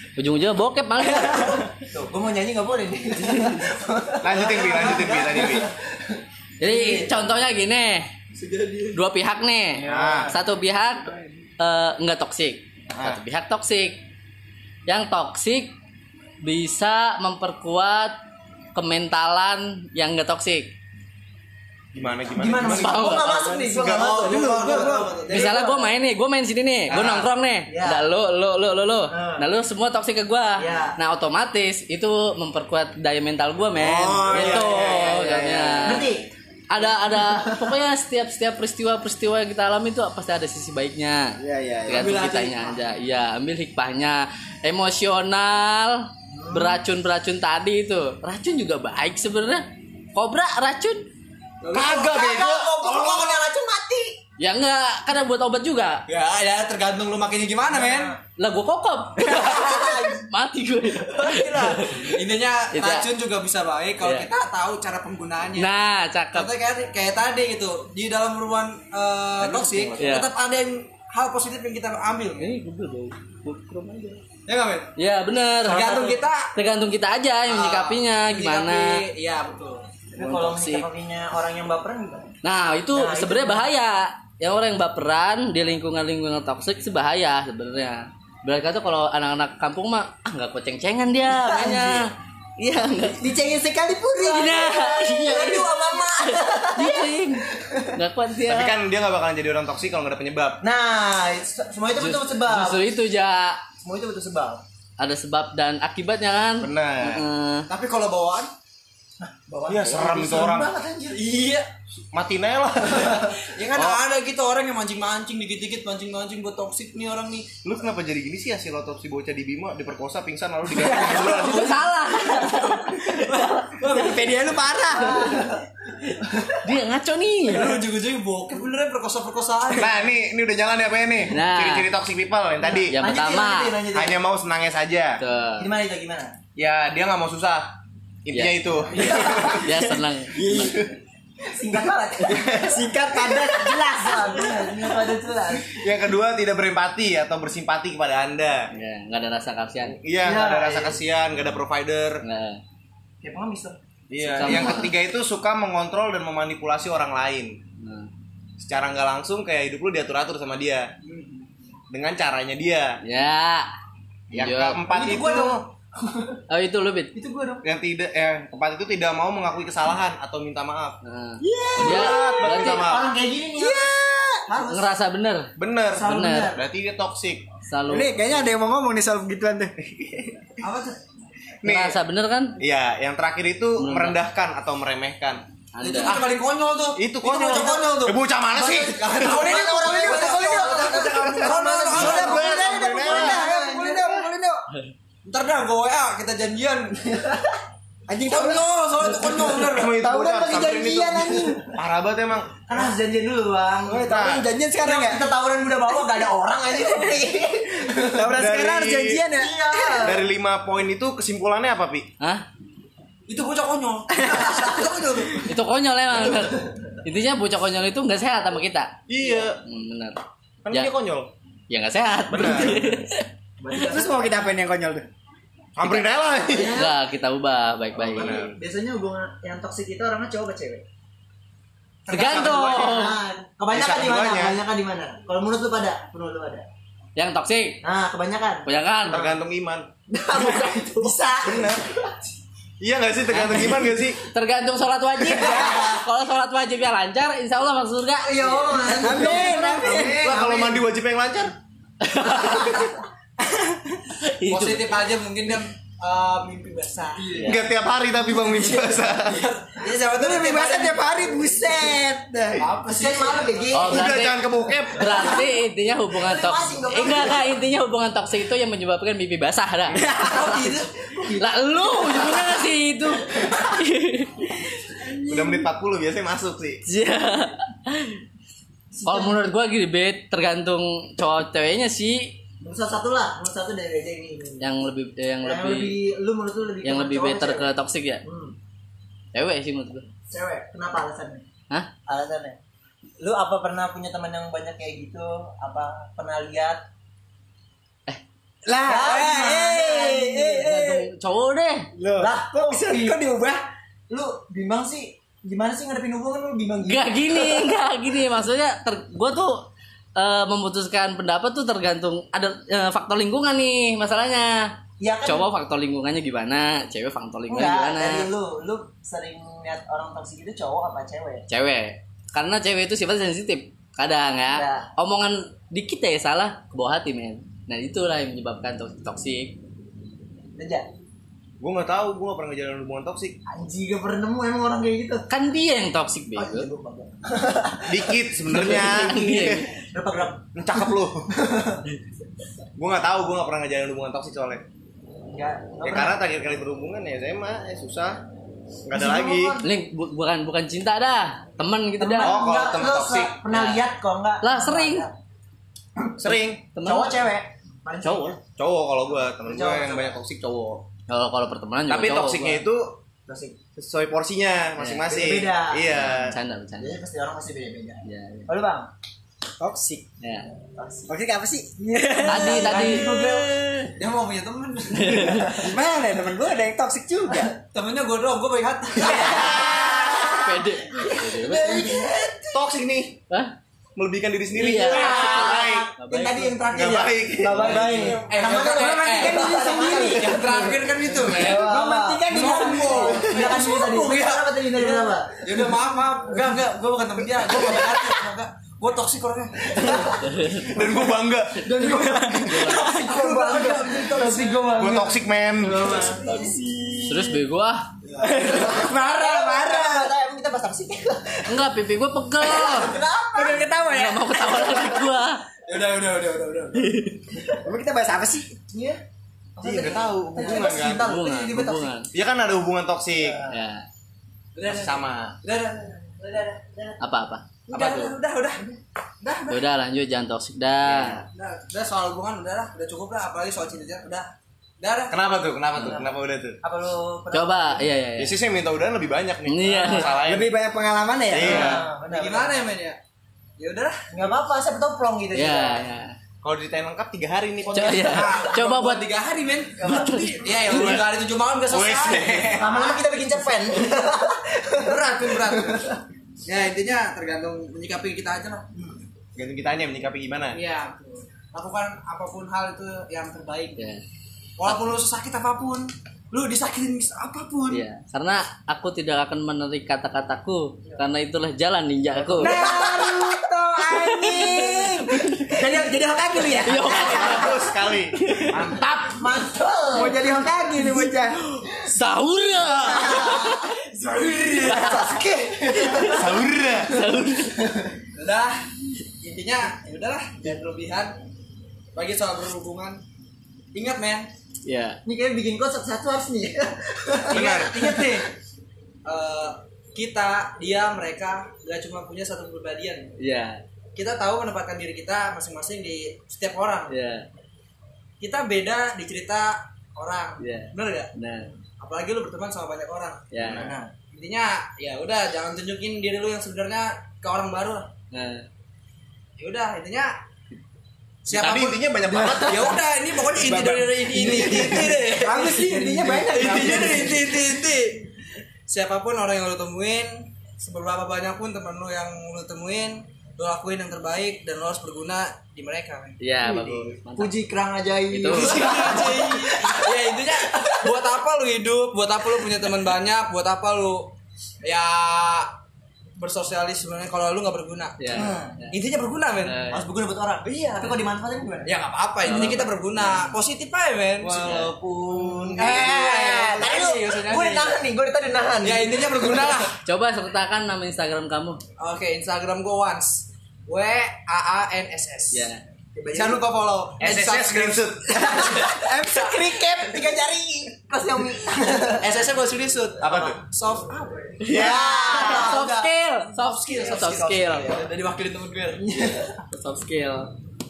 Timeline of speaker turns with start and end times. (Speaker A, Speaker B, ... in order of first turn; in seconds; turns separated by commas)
Speaker A: 0.2-1.7, Speaker B: 1.2-5.7, Speaker C: 4.2-5.7, Speaker A: 6.6-8.1, Speaker B: 6.6-7.1, Speaker D: 8.3-9.0, Speaker A: 8.9-14.0, Speaker C: 9.8-10.4, Speaker C: 12.9-13.2, Speaker A: 14.9-15.7, Speaker A: 16.4-18.2, Speaker A: 18.8-20.7, Speaker C: 21.9-24.3, Speaker B: 22.3-25.9, Speaker A: 22.6-23.5, Speaker D: 23.5-25.6, Speaker A: 25.3-36.1, Speaker B: 26.9-28.0, Speaker B: 29.1-29.4, Speaker B: 30.6-31.0, Speaker C: 33.8-36.1, Speaker D: 34.3-35.1, Speaker B: 34.4-34.6, Speaker B: 35.9-36.3, Speaker A: 36.7-51.1, Speaker B: 37.2-37.7, Speaker E: 41.4-42.1, Speaker D: 41.9-42.8, Speaker B: 46.3-46.8, Speaker D: 51.6-53.4, Speaker B: 51.8-54.2, Speaker A: 54.4-56.0, Speaker D: 56.1-58.2, Speaker B: 57.7-58.2, Speaker A: 58.4-62.2, Speaker B: 59.2-60.2, Speaker D: 61.0-65.7, Speaker A: 62.7-63.1, Speaker A: 64.0-64.3, Speaker A: 65.6-66.5, Speaker D: 66.3-72.5, Speaker C: 69.4-70.0, Speaker A: 70.0-70.3, Speaker A: 72.4-74.2, Speaker D: 74.5-74.9, Speaker A: 75.0-79.0, Speaker D: 75.6-76.5, Speaker D: 77.5-79.8, Speaker B: 80.1-82.3, Speaker A: 80.2-80.9, Speaker A: 82.4-93.2, Speaker B: 82.9-83.7, Speaker B: 91.3-92.0, Speaker E: 93.2-95.7, Speaker A: 94.2-98.8, Speaker B: 94.2-97.9, Speaker C: 98.5-100.6, Speaker B: 100.6-102.8, Speaker A: 102.0-103.6, Speaker B: 103.8-104.6, Speaker A: 105.0-107.7, Speaker C: 106.6-107.3, Speaker D: 107.7-108.5, Speaker B: 109.2-111.2, Speaker C: 109.7-110.7, Speaker D: 111.1-111.7, Speaker C: 112.1-114.0, Speaker D: 112.9-117.5, Speaker C: 117.6-121.8, Speaker D: 120.8-121.5, Speaker A: 121.1-123.7, Speaker D: 122.1-124.3, Speaker E: 123.8-125.5, Speaker B: 125.0-125.6, Speaker B: 126.2-126.6, Speaker A: 126.6-127.8, Speaker D: 127.5-130.0, Speaker C: 129.8-133.0, Speaker A: 131.3-131.9, Speaker B: 132.6-134.2, Speaker A: 132.9-133.8, Speaker C: 133.9-135.2, Speaker A: 135.2-135.7, Speaker B: 135.6-136.3, Speaker C: 136.6-137.7, Speaker C: 138.2-139.4, Speaker A: 138.3-140.9, Speaker B: 139.0-139.6, Speaker E: 139.2-139.6, Speaker E: 140.3-140.9, Speaker B: 141.4-145.8, Speaker E: 142.2-144.9, Speaker C: 145.7-148.7, Speaker A: 148.7-150.0, Speaker C: 149.9-152.2, Speaker B: 150.2-151.0, Speaker A: 152.2-152.6, Speaker B: 153.2-153.8, Speaker C: 154.1-157.6, Speaker A: 154.2-154.9, Speaker A: 157.8-158.1, Speaker C: 158.6-160.9, Speaker D: 161.1-161.4, Speaker C: 161.9-163.0, Speaker A: 163.0-163.7, Speaker C: 164.3-165.7, Speaker A: 164.3-164.8, Speaker B: 164.9-166.4, Speaker A: 166.5-167.1, Speaker B: 167.2-167.6, Speaker C: 167.6-171.0, Speaker A: 171.0-172.9, Speaker E: 171.4-172.5, Speaker C: 171.8-173.1, Speaker B: 172.5-173.9, Speaker E: 173.6-174.5, Speaker B: 174.5-175.0, Speaker A: 174.6-176.5, Speaker C: 175.6-177.4, Speaker B: 175.9-176.6, Speaker A: 177.7-178.5, Speaker E: 177.9-179.7, Speaker C: 179.8-180.4, Speaker D: 180.6-181.0, Speaker C: 181.6-182.0, Speaker A: 181.6-182.6, Speaker C: 182.6-185.4, Speaker A: 183.8-184.2, Speaker A: 185.7-186.2, Speaker D: 185.8-192.5, Speaker C: 187.0-189.3, Speaker B: 187.4-188.1, Speaker B: 189.2-194.3, Speaker E: 189.9-194.6, Speaker C: 191.1-193.5, Speaker D: 195.3-197.3, Speaker B: 197.3-197.6, Speaker E: 198.1-201.8, Speaker D: 198.2-199.9, Speaker C: 199.7-202.6, Speaker B: 202.7-204.2, Speaker E: 203.9-205.3, Speaker C: 204.1-204.5, Speaker B: 204.8-208.4, Speaker E: 208.0-210.1, Speaker C: 208.3-209.3, Speaker B: 209.3-210.2, Speaker C: 210.0-212.1, Speaker D: 213.3-215.5, Speaker B: 214.4-214.7, Speaker A: 215.5-219.0, Speaker C: 219.1-219.6, Speaker A: 219.6-220.2, Speaker C: 220.7-221.3, Speaker A: 221.7-223.3, Speaker C: 222.3-222.9, Speaker B: 223.6-224.3, Speaker E: 223.7-225.1, Speaker C: 225.8-226.9, Speaker A: 225.8-226.1, Speaker B: 226.4-227.0, Speaker A: 226.7-228.5, Speaker C: 228.0-228.5, Speaker B: 228.1-230.8, Speaker C: 232.1-233.1, Speaker A: 232.1-233.2, Speaker B: 232.2-236.7, Speaker C: 233.7-234.6, Speaker A: 237.2-237.8, Speaker B: 237.8-238.7, Speaker A: 238.7-239.3, Speaker C: 239.1-239.9, Speaker B: 240.1-242.2, Speaker C: 241.4-241.8, Speaker C: 242.8-244.2, Speaker A: 243.3-249.2, Speaker B: 245.3-246.0, Speaker B: 248.2-250.8, Speaker E: 248.9-250.3, Speaker C: 249.4-251.5, Speaker A: 252.0-252.9, Speaker B: 252.3-252.9, Speaker D: 254.2-257.6, Speaker A: 257.3-257.7, Speaker C: 257.4-259.4, Speaker D: 258.7-261.0, Speaker E: 260.1-262.7, Speaker D: 262.6-263.6, Speaker B: 262.8-264.2, Speaker A: 263.7-270.0, Speaker C: 263.8-265.3, Speaker B: 265.1-265.6, Speaker B: 266.1-267.5, Speaker B: 270.1-272.7, Speaker E: 270.2-270.8, Speaker A: 271.4-274.7, Speaker B: 275.1-275.5, Speaker C: 275.3-276.8, Speaker A: 276.9-278.2, Speaker B: 278.9-279.4, Speaker A: 279.1-282.4, Speaker B: 282.6-284.8, Speaker A: 284.6-286.0, Speaker B: 285.4-287.7, Speaker A: 286.8-288.2, Speaker B: 288.2-288.6, Speaker A: 289.3-290.1, Speaker B: 290.3-291.4, Speaker B: 292.1-292.6, Speaker B: 293.2-296.8, Speaker E: 298.7-300.4, Speaker B: 298.9-301.1, Speaker A: 298.9-301.9, Speaker E: 302.0-303.6, Speaker B: 302.2-303.2, Speaker B: 304.1-307.7, Speaker A: 306.9-314.7, Speaker B: 315.0-315.5, Speaker A: 315.2-318.3, Speaker B: 317.5-321.4, Speaker A: 321.5-329.6, Speaker B: 324.5-324.9, Speaker B: 330.6-330.9, Speaker C: 331.6-333.4, Speaker B: 333.5-335.2, Speaker A: 335.3-336.7, Speaker B: 336.4-339.1, Speaker C: 337.9-339.7, Speaker A: 338.5-339.7, Speaker B: 339.8-341.8, Speaker C: 340.6-341.3, Speaker C: 342.8-344.6, Speaker B: 345.3-346.2, Speaker C: 345.8-348.2, Speaker C: 348.9-349.6, Speaker B: 348.9-349.7, Speaker A: 349.6-352.4, Speaker B: 352.0-355.1, Speaker C: 352.2-353.4, Speaker A: 353.5-353.9, Speaker A: 354.4-355.1, Speaker C: 356.2-356.6, Speaker A: 356.7-357.2, Speaker B: 356.8-358.4, Speaker A: 358.0-358.4, Speaker C: 358.6-360.9, Speaker B: 359.4-360.2, Speaker A: 361.1-362.6, Speaker C: 361.9-363.0, Speaker B: 363.3-363.6, Speaker C: 363.8-366.4, Speaker A: 364.8-365.1, Speaker B: 365.1-365.9, Speaker A: 365.9-367.0, Speaker B: 366.8-368.9, Speaker A: 368.1-368.5, Speaker E: 369.6-370.1, Speaker A: 370.2-370.5, Speaker B: 370.8-371.2, Speaker E: 371.1-373.5, Speaker B: 372.2-373.5, Speaker A: 372.2-373.3, Speaker D: 372.6-373.2, Speaker D: 374.0-375.5, Speaker A: 374.9-375.7, Speaker E: 375.4-377.5, Speaker D: 377.7-379.9, Speaker B: 379.0-382.7, Speaker C: 379.1-380.2, Speaker A: 380.3-382.1, Speaker C: 382.5-383.2, Speaker C: 384.0-385.9, Speaker A: 384.6-386.6, Speaker B: 384.8-395.7, Speaker C: 386.7-388.2, Speaker E: 387.5-390.5, Speaker D: 388.0-391.7, Speaker E: 391.3-393.9, Speaker D: 392.3-400.2, Speaker B: 397.5-398.2, Speaker B: 399.8-400.8, Speaker A: 400.3-400.6, Speaker C: 400.7-402.3, Speaker E: 401.7-404.8, Speaker B: 401.8-406.6, Speaker A: 402.5-402.9, Speaker D: 402.8-404.7, Speaker C: 404.8-406.0, Speaker E: 405.7-407.4, Speaker D: 405.7-406.1, Speaker A: 407.1-407.9, Speaker D: 408.1-408.6, Speaker E: 408.2-410.1, Speaker B: 408.4-411.6, Speaker A: 411.5-413.0, Speaker B: 412.6-414.0, Speaker E: 412.6-415.1, Speaker A: 413.9-415.4, Speaker D: 415.7-417.1, Speaker A: 416.8-417.2, Speaker E: 417.6-418.6, Speaker B: 418.7-419.0, Speaker B: 419.6-421.9, Speaker C: 419.6-421.1, Speaker A: 420.7-422.1, Speaker C: 422.1-423.5, Speaker A: 423.5-423.9, Speaker D: 424.6-427.0, Speaker C: 424.6-425.4, Speaker A: 427.0-428.1, Speaker D: 427.7-429.6, Speaker A: 429.5-431.2, Speaker C: 430.9-431.2, Speaker D: 431.3-435.5, Speaker C: 435.1-436.6, Speaker B: 435.8-437.9, Speaker A: 437.3-438.4, Speaker C: 438.2-440.5, Speaker A: 439.5-440.1, Speaker E: 440.2-441.8, Speaker C: 441.3-441.9, Speaker B: 441.4-442.6, Speaker D: 441.5-443.0, Speaker D: 443.6-444.3, Speaker B: 444.1-445.9, Speaker A: 445.3-446.2, Speaker C: 446.4-448.4, Speaker A: 447.7-449.1, Speaker D: 448.0-453.0, Speaker B: 449.8-450.3, Speaker A: 449.8-450.3, Speaker C: 450.6-451.1, Speaker C: 451.7-452.8, Speaker B: 452.6-456.0, Speaker D: 454.8-455.9, Speaker D: 456.4-458.7, Speaker C: 459.4-460.6, Speaker D: 460.5-463.8, Speaker D: 464.6-467.8, Speaker A: 467.7-472.6, Speaker E: 472.4-477.6, Speaker B: 472.4-473.5, Speaker B: 474.1-474.6, Speaker B: 475.6-477.6, Speaker A: 476.6-477.6, Speaker C: 477.0-478.8, Speaker A: 478.2-478.8, Speaker B: 478.5-480.3, Speaker E: 479.9-481.4, Speaker A: 481.7-483.7, Speaker D: 482.8-485.2, Speaker B: 482.8-483.6, Speaker B: 484.6-486.4, Speaker A: 485.9-486.1, Speaker C: 486.1-487.0, Speaker A: 486.9-487.7, Speaker B: 487.6-487.9, Speaker D: 488.2-488.7, Speaker D: 489.2-491.2, Speaker D: 491.9-493.0, Speaker D: 493.7-494.3, Speaker A: 494.6-495.0, Speaker B: 495.1-498.2, Speaker C: 497.3-497.8, Speaker D: 497.3-498.3, Speaker D: 499.1-503.1, Speaker A: 503.2-503.6, Speaker D: 504.0-506.9, Speaker A: 506.9-507.3, Speaker D: 508.2-511.1, Speaker A: 510.4-511.5, Speaker D: 511.8-513.2, Speaker A: 513.3-513.7, Speaker C: 513.4-513.8, Speaker B: 513.6-513.9, Speaker D: 514.1-517.9, Speaker A: 518.1-518.5, Speaker D: 519.4-520.1, Speaker D: 521.2-528.0, Speaker C: 521.3-522.8, Speaker E: 523.3-527.4, Speaker B: 525.5-527.1, Speaker D: 528.7-536.2, Speaker A: 536.2-537.3, Speaker B: 536.4-540.8, Speaker A: 538.1-539.0, Speaker D: 538.3-544.1, Speaker D: 544.6-545.5, Speaker D: 546.2-549.7, Speaker A: 548.0-548.8, Speaker B: 548.1-548.6, Speaker A: 549.4-549.9, Speaker B: 549.7-551.7, Speaker D: 550.5-551.0, Speaker D: 551.6-557.8, Speaker A: 552.2-552.7, Speaker C: 554.2-555.9, Speaker B: 555.2-559.6, Speaker D: 558.6-559.7, Speaker A: 559.8-561.6, Speaker D: 561.8-565.5, Speaker A: 565.3-565.6, Speaker B: 566.0-566.4, Speaker D: 566.1-569.4, Speaker C: 567.0-568.4, Speaker B: 568.1-568.8, Speaker E: 568.7-570.9, Speaker B: 570.9-572.1, Speaker D: 572.0-574.4, Speaker C: 573.0-573.4, Speaker C: 574.4-575.6, Speaker A: 574.4-577.7, Speaker B: 574.5-575.9, Speaker D: 576.3-578.9, Speaker B: 578.8-579.3, Speaker A: 579.5-580.3